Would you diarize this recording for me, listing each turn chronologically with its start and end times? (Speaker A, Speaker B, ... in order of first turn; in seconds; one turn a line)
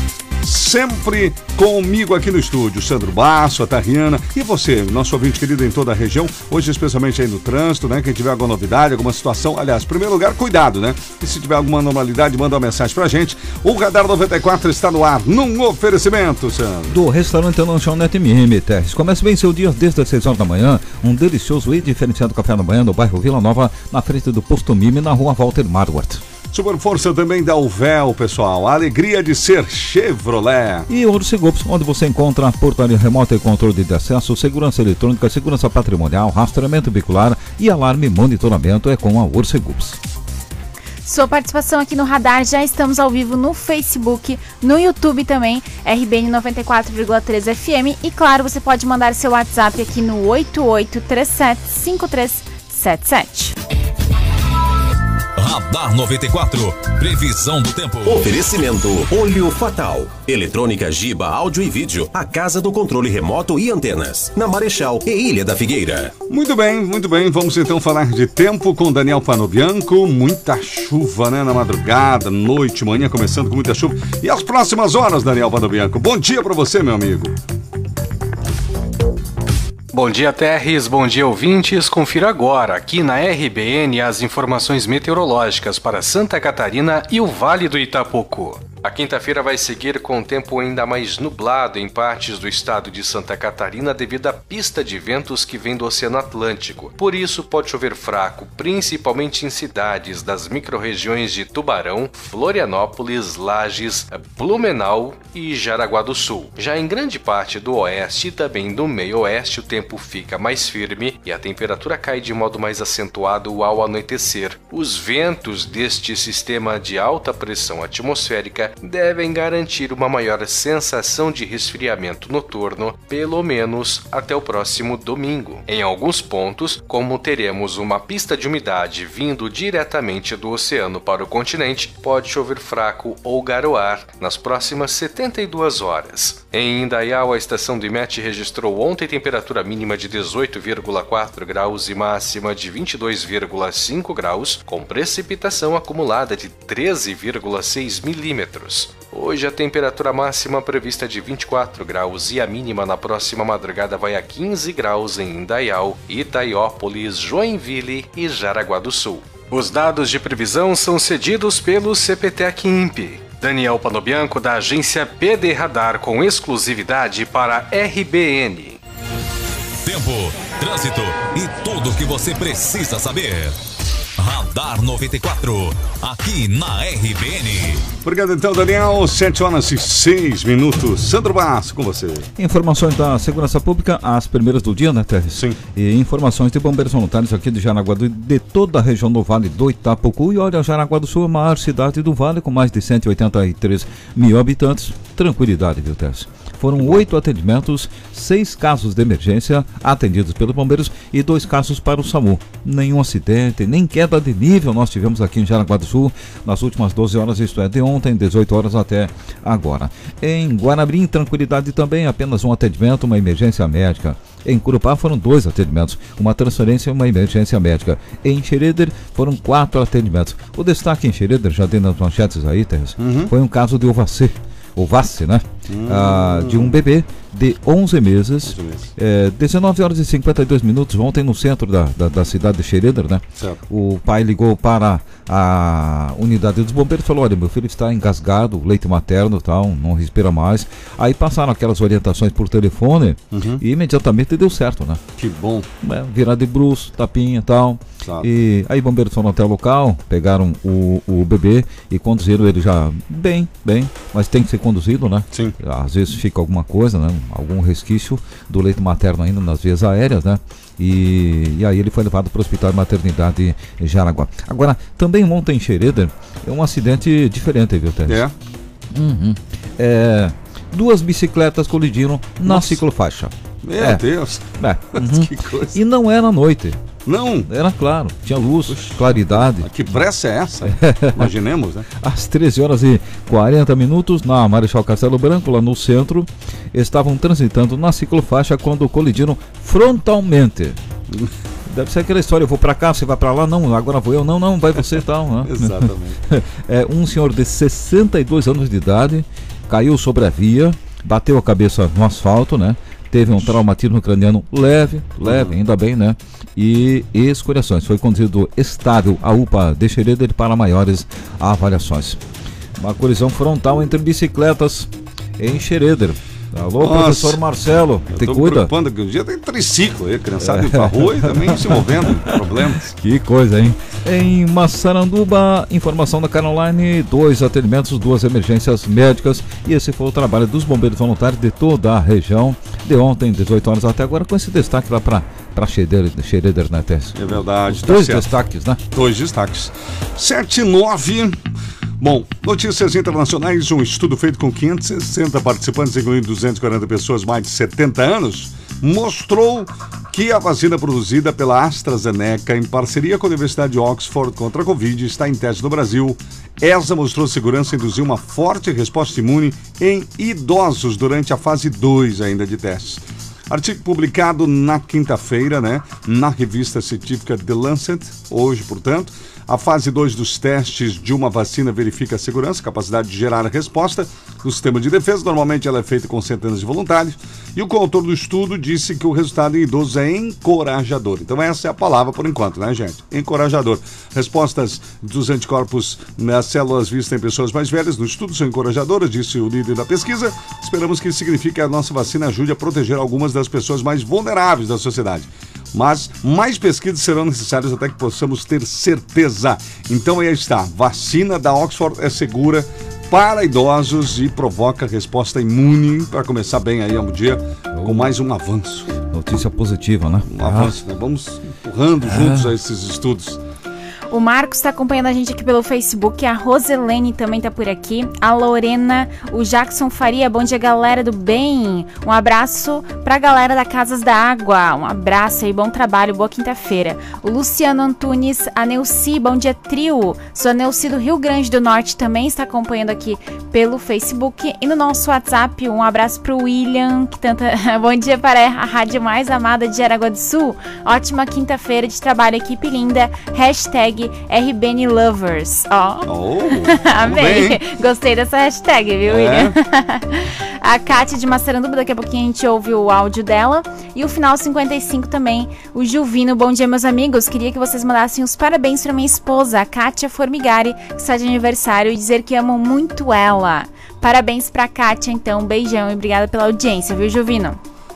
Speaker A: 0.4-16.9
Speaker B: 16.9-26.2
Speaker A: 26.5-30.9
Speaker B: 30.9-40.0
Speaker C: 41.0-53.5
Speaker D: 55.4-58.3
Speaker E: 58.0-66.1
Speaker A: 66.3-77.3
Speaker F: 79.9-168.8
Speaker D: 169.8-173.5
Speaker D: 174.2-177.8
Speaker A: 178.0-182.3
Speaker B: 182.3-245.0
Speaker A: 185.3-185.6
Speaker A: 223.0-223.3
Speaker A: 225.7-226.8
Speaker A: 228.4-228.9
Speaker A: 243.3-243.6
Speaker A: 245.2-245.7
Speaker B: 245.8-268.2
Speaker A: 268.1-268.3
Speaker B: 268.9-274.0
Speaker A: 272.4-272.8
Speaker A: 273.6-275.8
Speaker B: 274.6-276.8
Speaker A: 277.1-277.5
Speaker B: 277.4-279.7
Speaker A: 278.7-281.9
Speaker B: 280.6-281.3
Speaker B: 282.0-290.8
Speaker B: 291.7-312.2
Speaker A: 295.4-296.2
Speaker A: 305.2-305.5
Speaker B: 312.8-318.7
Speaker A: 316.8-317.4
Speaker A: 318.1-322.9
Speaker B: 320.4-322.3
Speaker B: 323.0-338.8
Speaker A: 337.1-338.3
Speaker A: 338.9-341.4
Speaker A: 342.0-408.9
Speaker B: 407.7-408.1
Speaker B: 409.1-410.7
Speaker A: 410.2-413.4
Speaker B: 412.0-412.5
Speaker C: 414.1-446.1
Speaker A: 446.1-447.6
Speaker C: 446.6-467.6
Speaker A: 449.1-449.5